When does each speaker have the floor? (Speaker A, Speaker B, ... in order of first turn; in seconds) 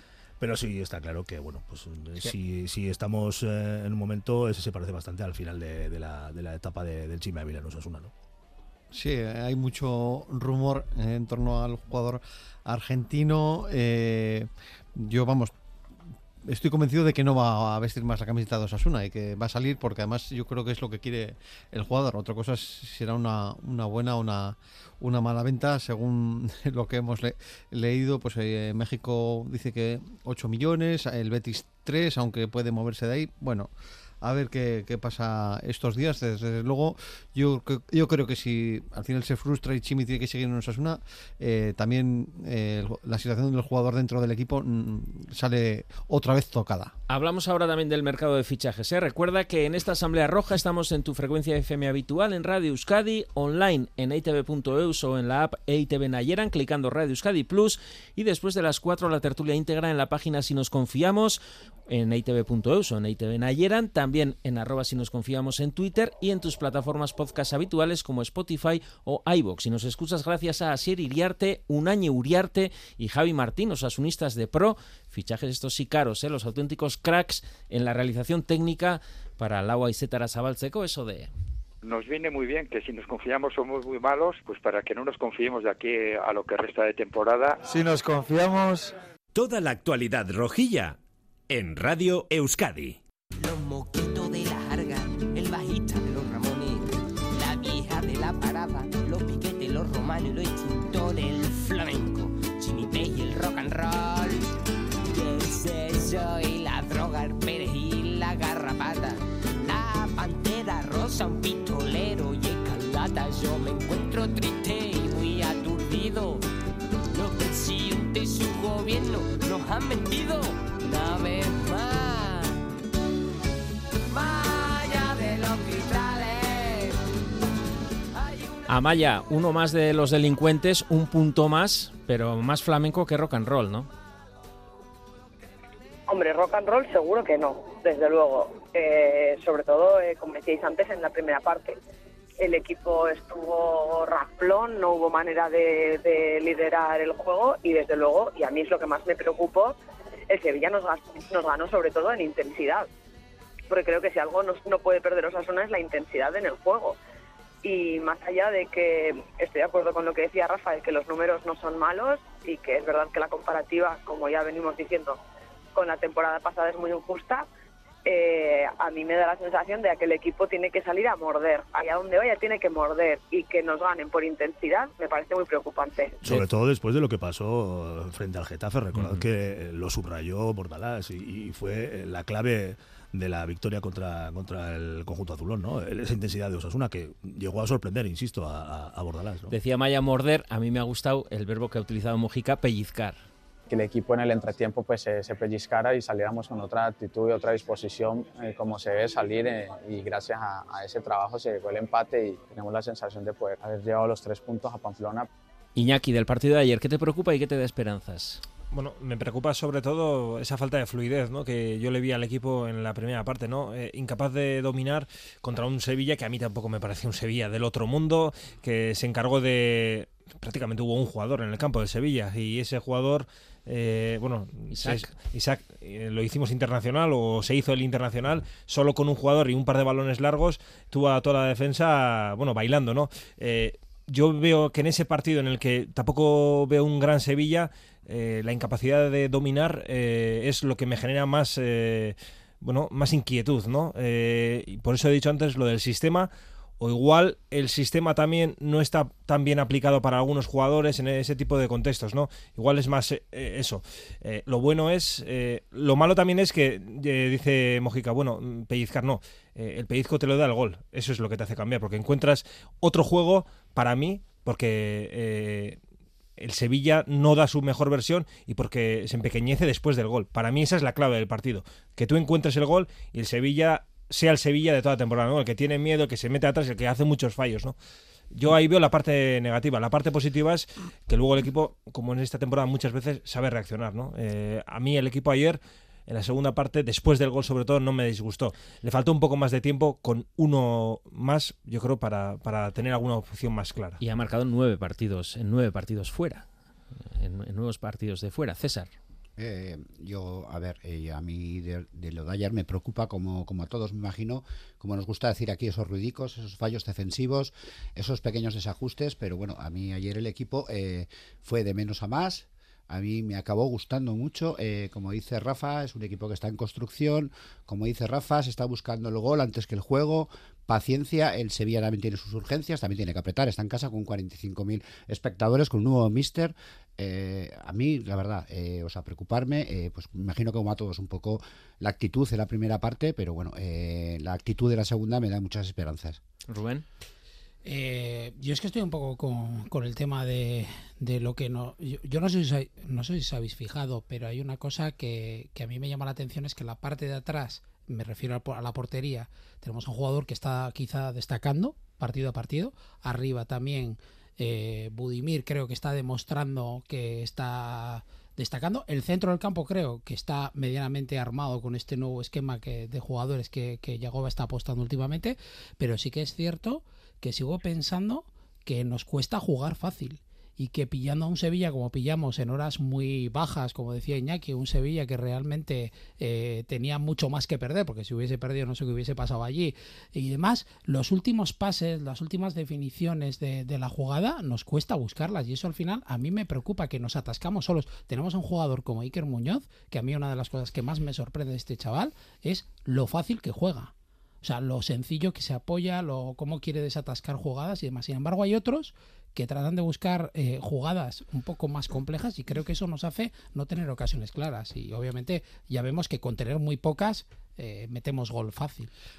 Speaker A: 0.4-8.1, 176.2-189.5
Speaker B: 8.9-15.5, 16.4-33.7, 34.2-46.9
Speaker C: 47.1-81.3, 128.7-133.9, 178.9-179.2, 189.5-193.2, 205.7-208.4, 224.7-225.1, 294.0-296.4, 297.0-298.9, 336.5-336.8
Speaker D: 81.8-88.9
Speaker E: 89.3-91.0, 91.5-93.0
Speaker F: 93.4-104.5, 105.0-116.5, 117.1-122.7, 124.1-127.0, 128.2-128.6
Speaker G: 136.1-141.8, 142.4-149.8, 150.3-152.9, 153.7-157.0, 157.6-165.2, 165.7-167.4, 168.0-176.2
Speaker H: 193.7-205.3
Speaker I: 208.7-265.8, 266.4-277.7, 278.3-294.0
Speaker J: 299.4-336.2
Speaker K: 337.6-408.9